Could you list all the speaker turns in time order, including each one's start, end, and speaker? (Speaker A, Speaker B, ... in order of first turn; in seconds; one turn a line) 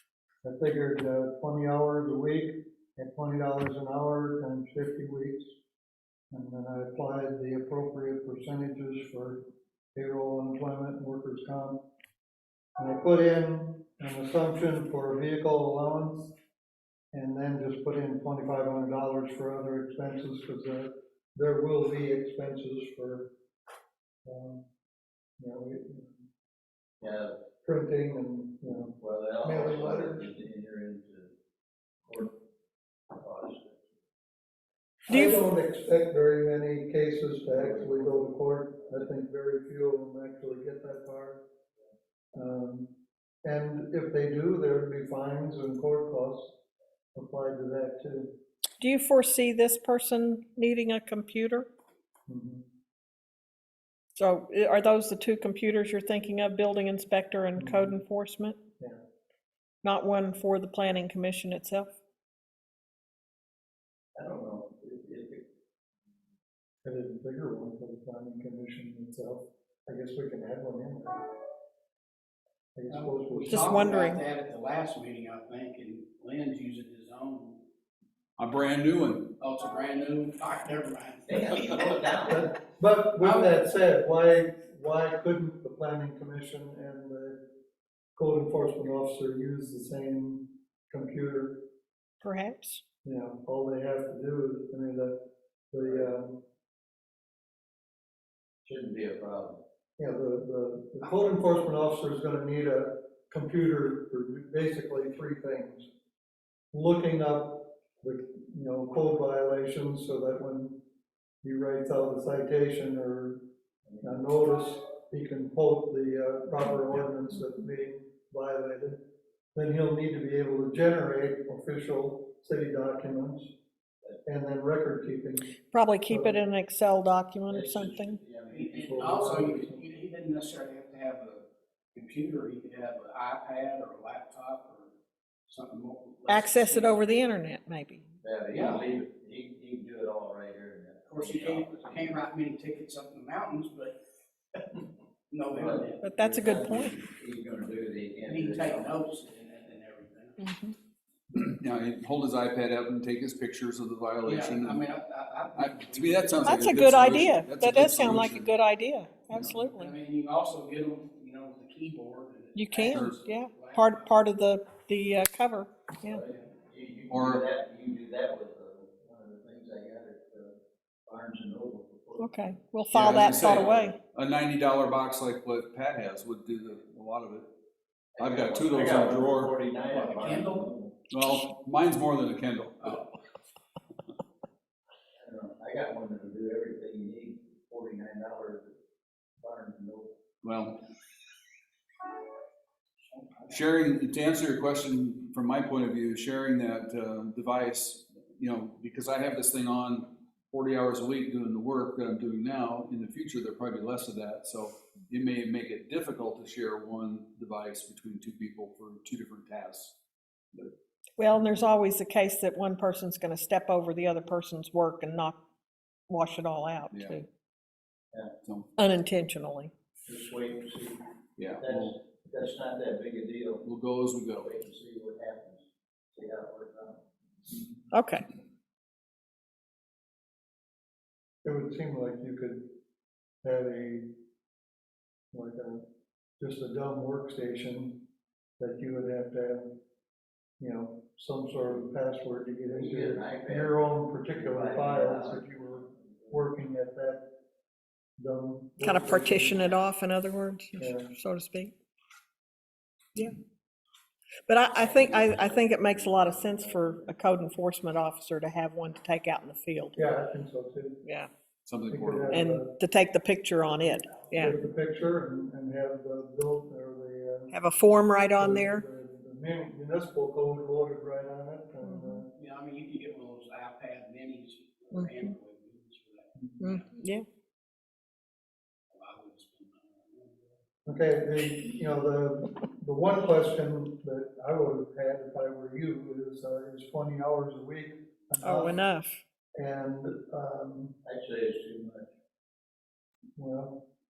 Speaker A: 0.4-5.5
Speaker A: 6.3-11.8
Speaker A: 12.8-16.3
Speaker A: 17.1-23.3
Speaker A: 24.2-24.6
Speaker A: 25.4-26.2
Speaker B: 27.0-27.4
Speaker A: 27.6-30.3
Speaker B: 29.0-31.3
Speaker B: 32.1-32.3
Speaker B: 33.1-33.9
Speaker A: 35.1-41.4
Speaker C: 35.1-35.4
Speaker B: 37.5-38.3
Speaker A: 42.3-42.9
Speaker A: 43.4-46.6
Speaker A: 47.1-48.4
Speaker C: 48.8-51.7
Speaker A: 52.3-52.6
Speaker C: 54.2-58.6
Speaker A: 57.6-58.0
Speaker C: 59.8-61.9
Speaker B: 64.2-65.4
Speaker A: 66.8-71.2
Speaker A: 72.8-73.9
Speaker D: 72.9-77.6
Speaker C: 73.5-74.2
Speaker E: 78.4-79.4
Speaker D: 79.4-82.3
Speaker B: 81.3-82.5
Speaker A: 82.3-87.4
Speaker D: 83.2-83.6
Speaker A: 88.2-91.6
Speaker C: 92.2-92.8
Speaker A: 93.0-96.4
Speaker B: 95.8-96.1
Speaker B: 98.7-99.6
Speaker A: 100.0-105.9
Speaker A: 106.7-110.8
Speaker A: 111.4-113.4
Speaker B: 113.9-114.2
Speaker A: 114.0-119.0
Speaker A: 119.5-123.5
Speaker A: 124.2-126.4
Speaker C: 125.7-128.2
Speaker B: 127.5-129.7
Speaker D: 128.5-134.9
Speaker A: 128.8-129.8
Speaker D: 135.5-137.1
Speaker C: 136.3-138.1
Speaker B: 138.2-142.2
Speaker D: 138.5-138.9
Speaker D: 141.1-144.0
Speaker D: 145.3-146.0
Speaker B: 145.5-148.9
Speaker C: 146.0-147.0
Speaker D: 148.3-150.4
Speaker C: 150.4-150.8
Speaker E: 151.3-154.8
Speaker D: 154.2-156.8
Speaker E: 155.6-158.5
Speaker C: 156.4-159.9
Speaker E: 159.3-159.6
Speaker D: 159.7-164.0
Speaker C: 162.6-166.2
Speaker E: 162.8-163.2
Speaker B: 166.1-173.9
Speaker E: 167.1-167.4
Speaker C: 172.2-174.0
Speaker E: 172.9-177.5
Speaker B: 178.2-180.9
Speaker E: 178.2-179.5
Speaker D: 179.9-180.7
Speaker E: 181.1-183.1
Speaker B: 185.2-188.7
Speaker B: 189.4-190.1
Speaker E: 190.4-190.8
Speaker D: 193.1-193.6
Speaker E: 193.5-210.0
Speaker C: 211.2-215.4
Speaker C: 216.1-217.3
Speaker E: 216.9-217.2
Speaker E: 218.4-218.7
Speaker C: 218.8-219.7
Speaker B: 220.1-221.0
Speaker E: 221.4-221.9
Speaker B: 221.6-223.6
Speaker E: 223.6-224.5
Speaker B: 224.4-227.7
Speaker C: 227.9-228.2
Speaker A: 231.4-232.7
Speaker A: 233.4-234.1
Speaker A: 235.3-235.8
Speaker A: 236.4-238.0
Speaker A: 238.6-239.8
Speaker A: 240.6-247.3
Speaker B: 242.7-243.8
Speaker B: 244.3-246.4
Speaker A: 248.2-249.8
Speaker C: 248.8-251.7
Speaker A: 250.8-251.2
Speaker C: 254.5-260.1
Speaker B: 254.7-257.1
Speaker A: 260.0-261.0
Speaker C: 261.0-261.3
Speaker E: 261.6-262.4
Speaker A: 261.9-262.7
Speaker C: 262.3-264.6
Speaker A: 264.3-267.6
Speaker C: 267.5-268.8
Speaker A: 268.4-272.3
Speaker C: 271.8-272.2
Speaker D: 272.3-276.9
Speaker C: 274.9-275.3
Speaker C: 276.6-277.3
Speaker D: 278.9-280.6
Speaker A: 280.9-288.8
Speaker C: 288.4-289.2
Speaker A: 289.6-291.0
Speaker B: 291.1-292.1
Speaker A: 293.4-293.8